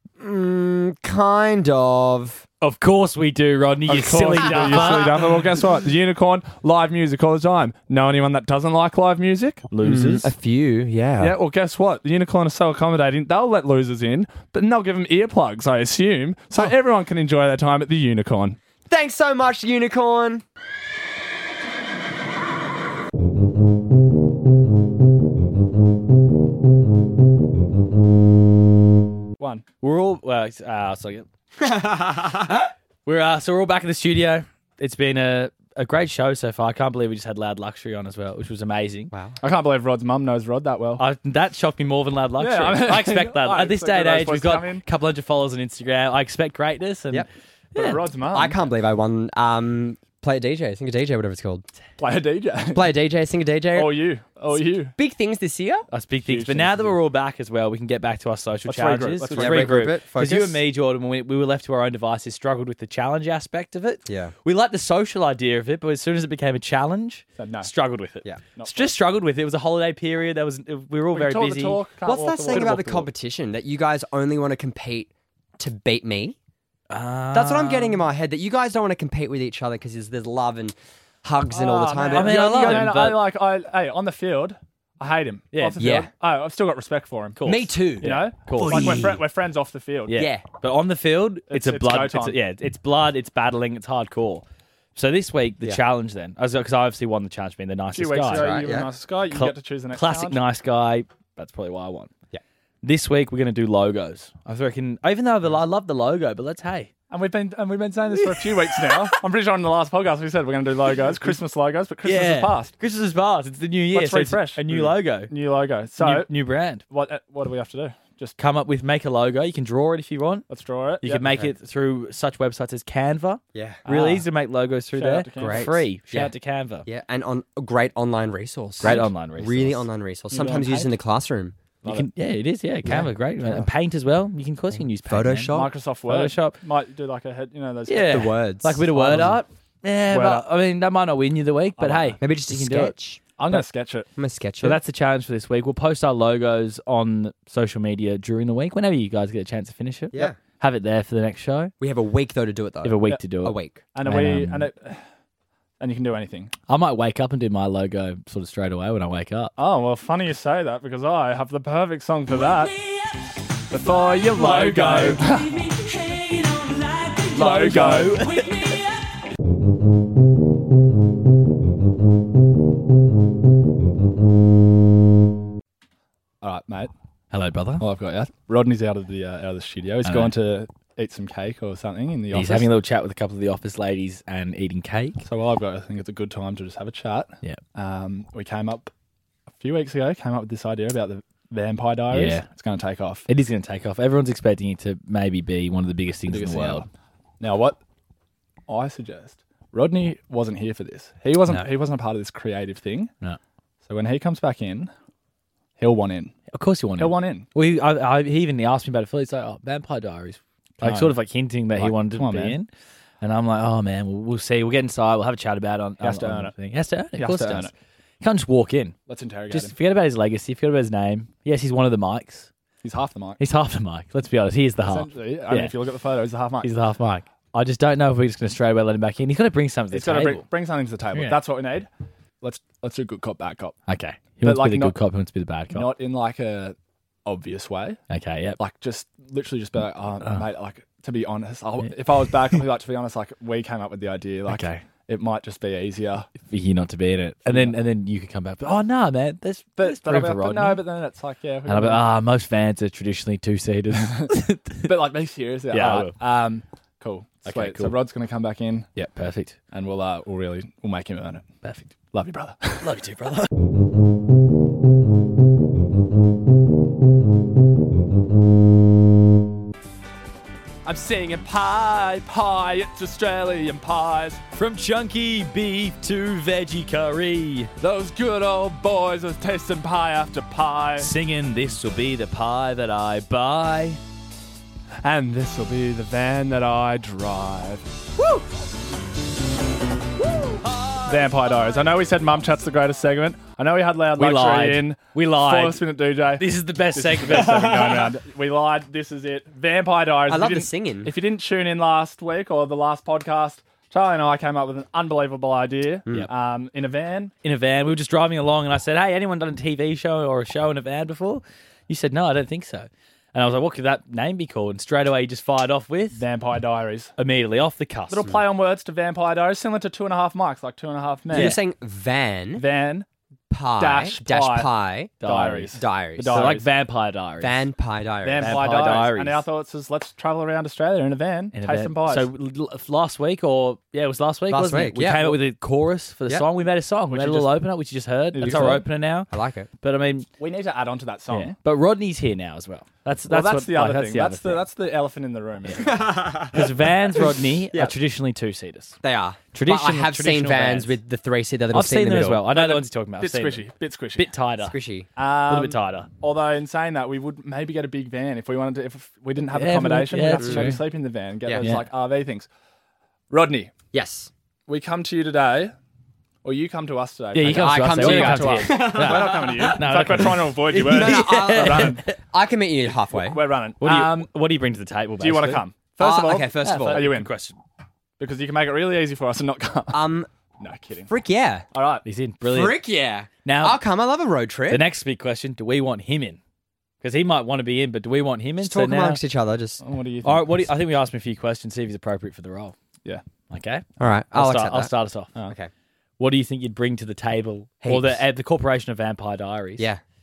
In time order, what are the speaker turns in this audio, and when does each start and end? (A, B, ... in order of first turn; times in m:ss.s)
0:00.2-0:02.4 A
0:02.6-0:05.4 B
0:03.9-0:09.7 C
0:09.7-0:10.3 B
0:09.8-0:11.4 A
0:11.2-0:18.6 C
0:18.9-0:20.4 A
0:29.4-0:29.6 C
0:29.8-0:31.3 B
0:33.0-0:39.1 B
0:39.1-0:39.4 A
0:39.4-0:41.0 C
0:41.0-0:48.0 B
0:42.4-0:44.8 C
0:47.8-0:48.6 C
0:47.8-0:51.7 A
0:52.0-0:52.9 C
0:52.7-0:54.0 A
0:53.7-0:54.9 C
0:55.0-0:55.9 A
0:55.9-1:11.8 B
0:56.2-0:57.0 C
0:58.7-0:59.8 C
0:59.3-1:00.6 A
1:04.1-1:04.3 A
1:07.4-1:07.7 C
1:08.6-1:08.9 C
1:11.1-1:13.1 C
1:12.0-1:16.4 A
1:12.5-1:12.8 B
1:16.9-1:18.1 B
1:17.3-1:22.9 A
1:21.5-1:27.5 C
1:22.1-1:23.3 B
1:25.5-1:25.8 B
1:25.8-1:26.1 A
1:27.4-1:29.2 B
1:27.4-1:28.2 A
1:28.0-1:30.2 C
1:30.1-1:34.4 B
1:30.1-1:30.4 A
1:31.5-1:32.4 C
1:35.0-1:38.6 B
1:37.9-1:40.4 C
1:38.3-1:38.9 A
1:39.3-1:42.1 B
1:42.8-1:46.9 B
1:47.1-1:52.7 C
1:48.2-1:49.1 B
1:52.0-1:55.3 B
1:53.9-1:56.3 C
1:56.0-1:56.8 B
1:56.9-1:58.4 C
1:58.4-2:00.5 B
2:00.5-2:01.3 C
2:01.0-2:06.9 B
2:01.2-2:01.5 A
2:03.5-2:03.8 A
2:03.9-2:04.3 C
2:05.0-2:05.7 C
2:05.3-2:06.3 A
2:06.8-2:11.6 A
2:08.8-2:09.8 B
2:10.3-2:10.9 C
2:11.8-2:16.6 B
2:12.9-2:13.7 A
2:15.0-2:15.7 A
2:15.5-2:18.2 C
2:17.9-2:22.9 B
2:18.1-2:19.3 A
2:18.9-2:19.4 C
2:20.1-2:20.5 C
2:21.8-2:22.2 C
2:22.2-2:23.2 A
2:23.4-2:24.1 C
2:24.2-2:24.8 A
2:24.6-2:31.7 B
2:30.1-2:30.4 A
2:31.8-2:33.8 A
2:32.8-2:34.7 B
2:33.9-2:35.0 C
2:35.8-2:36.5 C
2:36.7-2:39.5 B
2:39.6-2:42.7 C
2:43.7-2:45.6 C
2:44.4-2:45.2 B
2:47.0-2:48.8 B
2:47.3-2:48.3 C
2:56.4-2:56.9 C
2:57.3-2:57.8 B
2:57.8-3:02.7 C
3:00.0-3:00.3 B
3:02.3-3:05.2 B
3:05.2-3:08.9 C
3:09.6-3:13.3 C
3:12.1-3:12.5 B
3:13.3-3:16.9 B
3:16.3-3:16.9 C
3:17.4-3:17.8 C
3:18.7-3:23.1 C
3:23.9-3:24.9 C
3:25.8-3:26.4 C
3:26.5-3:32.7 B
3:27.0-3:27.5 C
3:30.8-3:31.2 C
3:31.8-3:32.6 C
3:33.2-3:39.0 B
3:36.0-3:36.6 C
3:37.2-3:37.7 C
3:39.1-3:39.7 C
3:39.5-3:42.5 B
3:42.8-3:43.4 C
3:43.4-3:45.7 B
3:44.8-3:46.7 C
3:46.6-3:50.4 B
3:49.9-3:51.9 C
3:51.1-3:51.4 B
3:52.4-3:53.8 C
3:53.9-3:55.9 B
3:54.4-3:55.0 C
3:55.7-3:58.0 C
3:58.1-3:58.6 B
3:58.6-4:06.3 C
4:04.5-4:04.8 B
4:06.5-4:10.8 B
4:07.5-4:07.8 C
4:09.8-4:12.1 C
4:11.7-4:14.9 B
4:14.0-4:18.9 C
4:15.7-4:16.2 B
4:17.5-4:18.0 B
4:19.0-4:19.6 B
4:19.7-4:21.5 C
4:21.6-4:21.9 B
4:22.1-4:22.9 C
4:22.8-4:23.5 B
4:30.8-4:34.4 C
4:34.5-4:37.7 B
4:37.8-4:41.1 C
4:41.0-4:44.0 B
4:45.0-4:47.9 C
4:50.7-4:51.1 B
4:51.1-5:07.3 C
4:54.2-4:55.8 B
4:56.4-4:58.1 B
5:00.3-5:01.1 A
5:07.4-5:16.2 B
5:16.1-5:17.1 C
5:17.2-5:18.3 B
5:18.1-5:21.6 C
5:21.3-5:22.6 A
5:21.3-5:21.6 B
5:22.6-5:23.1 C
5:23.5-5:26.6 A
5:23.8-5:24.7 C
5:25.2-5:27.7 B
5:25.2-5:26.7 C
5:27.4-5:28.6 A
5:28.2-5:32.3 C
5:28.4-5:29.4 B
5:31.5-5:39.3 B
5:34.5-5:35.4 A
5:37.1-5:37.6 C
5:38.3-5:38.9 C
5:39.3-5:39.7 A
5:39.8-5:40.3 B
5:40.4-5:41.6 C
5:41.3-5:44.7 B
5:43.3-5:46.3 C
5:45.7-5:49.0 B
5:45.8-5:46.7 A
5:47.7-5:48.0 A
5:49.0-5:52.5 A
5:49.5-5:51.0 B
5:51.7-5:54.8 B
5:52.5-5:54.3 C
5:54.6-5:55.1 A
5:55.2-6:02.5 C
5:55.5-5:56.1 B
5:59.5-6:00.8 B
6:00.4-6:00.7 A
6:01.6-6:01.9 B
6:03.3-6:03.7 C
6:03.9-6:04.3 A
6:04.7-6:05.8 C
6:06.4-6:12.0 C
6:07.3-6:12.2 B
6:07.4-6:09.7 A
6:10.7-6:13.4 A
6:13.2-6:14.3 C
6:13.8-6:15.6 B
6:15.2-6:17.3 C
6:16.0-6:17.1 A
6:16.6-6:17.6 B
6:18.2-6:20.1 C
6:19.9-6:20.3 A
6:20.6-6:21.1 C
6:21.1-6:21.7 A
6:21.7-6:22.0 C
6:22.0-6:22.8 B
6:22.4-6:24.8 A
6:23.4-6:23.8 B
6:24.7-6:26.4 B
6:27.0-6:29.2 B
6:28.6-6:29.8 A
6:29.8-6:30.7 C
6:30.2-6:32.8 B
6:33.5-6:35.3 B
6:34.0-6:34.9 A
6:35.4-6:35.7 A
6:36.2-6:39.9 B
6:37.8-6:38.2 A